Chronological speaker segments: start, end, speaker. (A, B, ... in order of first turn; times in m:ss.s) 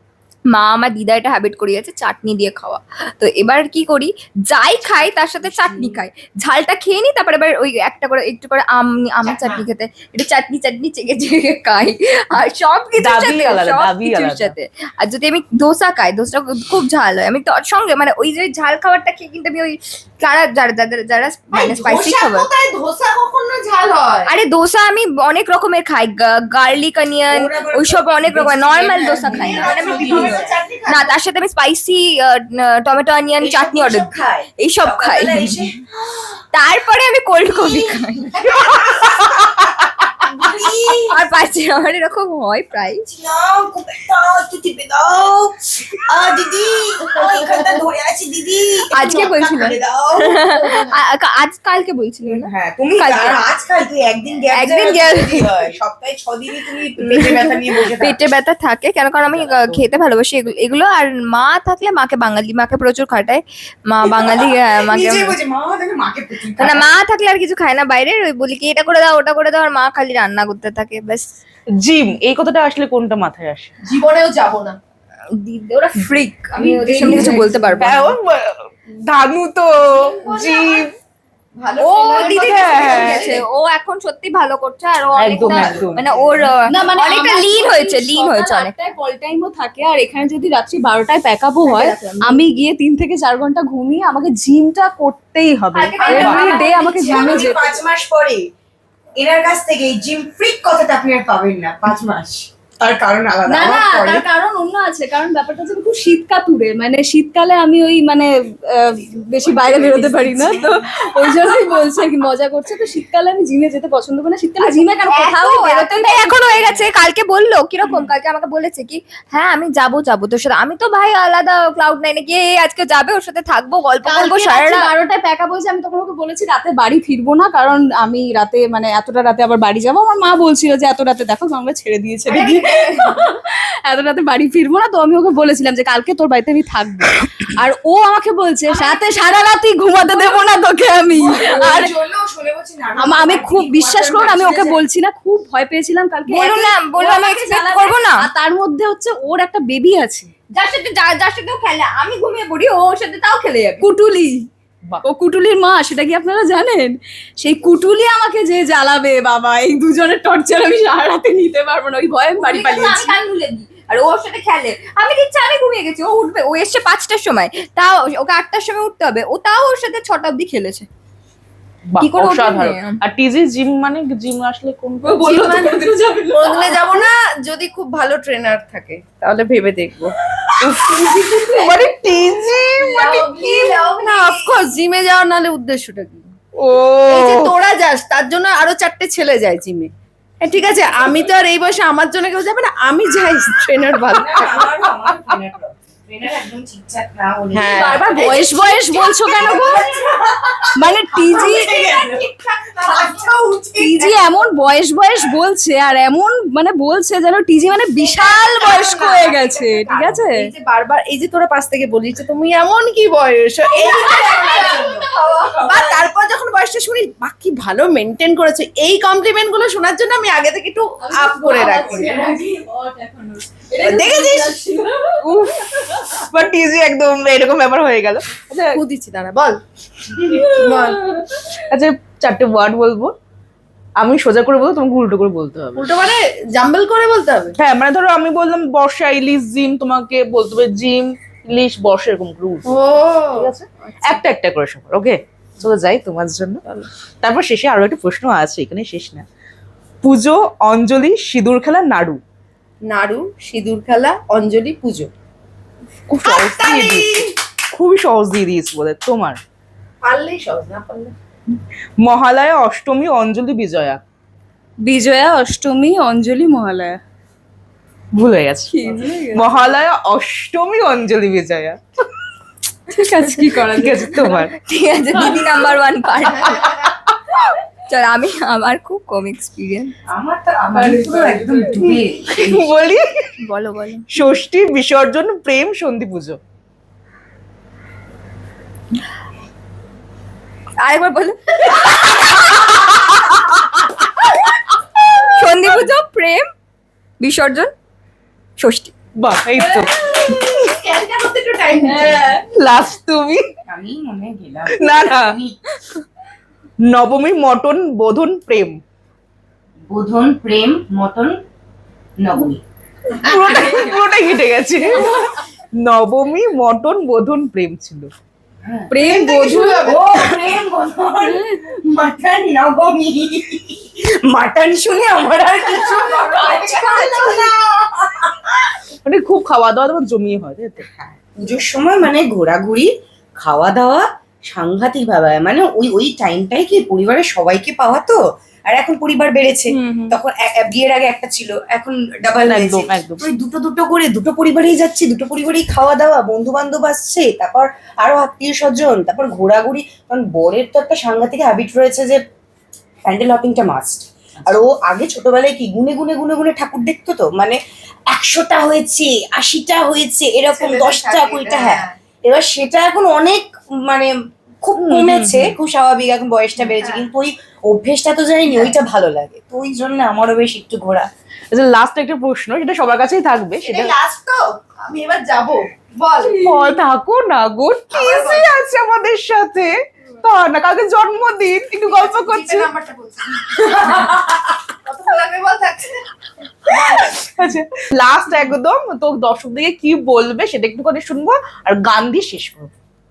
0:00.5-0:22.5 A
0:13.0-0:14.5 B
0:21.5-0:24.3 C
0:24.2-0:35.7 A
0:27.3-0:30.6 D
0:29.2-0:31.1 C
0:33.4-0:36.3 D
0:36.5-0:38.5 A
0:38.4-0:41.2 D
0:40.5-0:43.0 A
0:43.0-0:50.6 D
0:48.9-0:53.4 A
0:50.5-0:51.0 C
0:52.3-0:58.2 D
0:54.5-0:55.7 A
0:57.0-1:05.3 A
0:59.3-0:59.8 B
1:04.0-1:06.9 D
1:06.6-1:11.4 A
1:11.8-1:13.7 B
1:13.8-1:14.8 C
1:15.3-1:18.1 A
1:16.5-1:17.9 C
1:17.0-1:20.9 B
1:19.9-1:20.9 C
1:21.6-1:23.4 C
1:21.8-1:28.7 A
1:22.4-1:23.3 B
1:25.1-1:26.5 B
1:26.7-1:37.6 E
1:31.6-1:32.4 A
1:35.7-1:37.6 A
1:36.1-1:36.4 B
1:36.2-1:38.5 D
1:39.2-1:44.2 D
1:43.5-1:56.8 E
1:49.4-1:50.8 D
1:54.6-2:04.9 A
2:04.0-2:21.9 E
2:12.3-2:13.1 D
2:21.1-2:24.8 D
2:23.0-2:30.3 E
2:26.3-2:28.3 A
2:30.5-2:33.9 A
2:33.8-2:34.5 E
2:35.0-2:43.1 E
2:42.4-2:50.9 A
2:51.9-2:55.6 B
2:52.0-2:53.0 A
2:55.0-2:56.8 E
2:55.6-3:00.1 C
3:00.6-3:00.9 B
3:00.6-3:04.5 E
3:01.5-3:03.1 B
3:02.9-3:06.3 C
3:06.6-3:07.5 B
3:07.1-3:09.9 C
3:10.4-3:14.7 C
3:14.1-3:24.2 D
3:15.1-3:15.3 B
3:17.5-3:18.5 C
3:17.7-3:19.8 E
3:19.4-3:19.9 C
3:20.8-3:21.8 E
3:21.4-3:23.9 C
3:23.8-3:30.5 E
3:28.0-3:35.1 C
3:33.8-3:36.0 E
3:35.6-3:42.3 C
3:41.0-3:46.2 E
3:43.8-3:44.6 B
3:45.2-3:45.6 B
3:46.1-3:48.8 B
3:48.7-3:49.6 C
3:50.1-3:51.0 C
3:50.3-3:51.5 E
3:51.6-3:53.1 B
3:54.0-3:55.9 B
3:55.8-3:57.5 C
3:57.6-4:02.8 B
4:02.6-4:03.5 C
4:03.3-4:06.6 B
4:07.2-4:09.2 B
4:10.0-4:12.2 B
4:12.9-4:15.1 C
4:16.1-4:19.4 B
4:16.2-4:17.4 C
4:20.0-4:21.1 C
4:22.0-4:24.0 B
4:24.8-4:27.0 E
4:28.1-4:31.8 B
4:28.7-4:29.4 A
4:28.8-4:29.4 E
4:32.9-4:34.5 E
4:32.9-4:33.5 A
4:33.7-4:34.5 B
4:34.6-4:36.8 A
4:35.1-4:35.7 E
4:36.4-4:36.9 C
4:37.9-4:39.9 A
4:40.1-4:42.7 D
4:40.7-4:41.9 E
4:42.3-4:43.3 B
4:43.4-4:44.0 A
4:44.1-4:46.4 B
4:50.8-4:52.6 A
4:55.3-4:56.5 A
4:57.2-4:57.7 A
4:58.6-4:58.9 A
4:59.2-5:00.0 B
4:59.6-5:00.4 E
5:00.1-5:02.4 C
5:01.8-5:02.4 E
5:02.5-5:03.5 B
5:03.7-5:05.6 D
5:04.7-5:05.4 B
5:06.8-5:08.8 B
5:09.9-5:11.4 D
5:12.2-5:12.6 D
5:13.2-5:18.1 B
5:13.3-5:13.9 D
5:18.6-5:18.9 D
5:18.9-5:20.0 E
5:18.9-5:20.4 C
5:19.8-5:27.6 D
5:21.2-5:21.6 E
5:25.6-5:27.6 C
5:29.0-5:30.8 B
5:30.8-5:52.2 D
5:39.8-5:40.1 A
5:42.4-5:43.3 B
5:53.0-5:57.6 D
5:58.1-6:04.1 D
6:00.5-6:01.9 C
6:04.6-6:11.1 D
6:04.8-6:05.5 B
6:06.6-6:07.1 C
6:11.5-6:13.9 B
6:13.6-6:16.5 C
6:16.2-6:16.8 E
6:16.4-6:22.7 B
6:17.9-6:18.4 C
6:21.8-6:26.0 C
6:26.6-6:27.2 C
6:26.7-6:32.7 B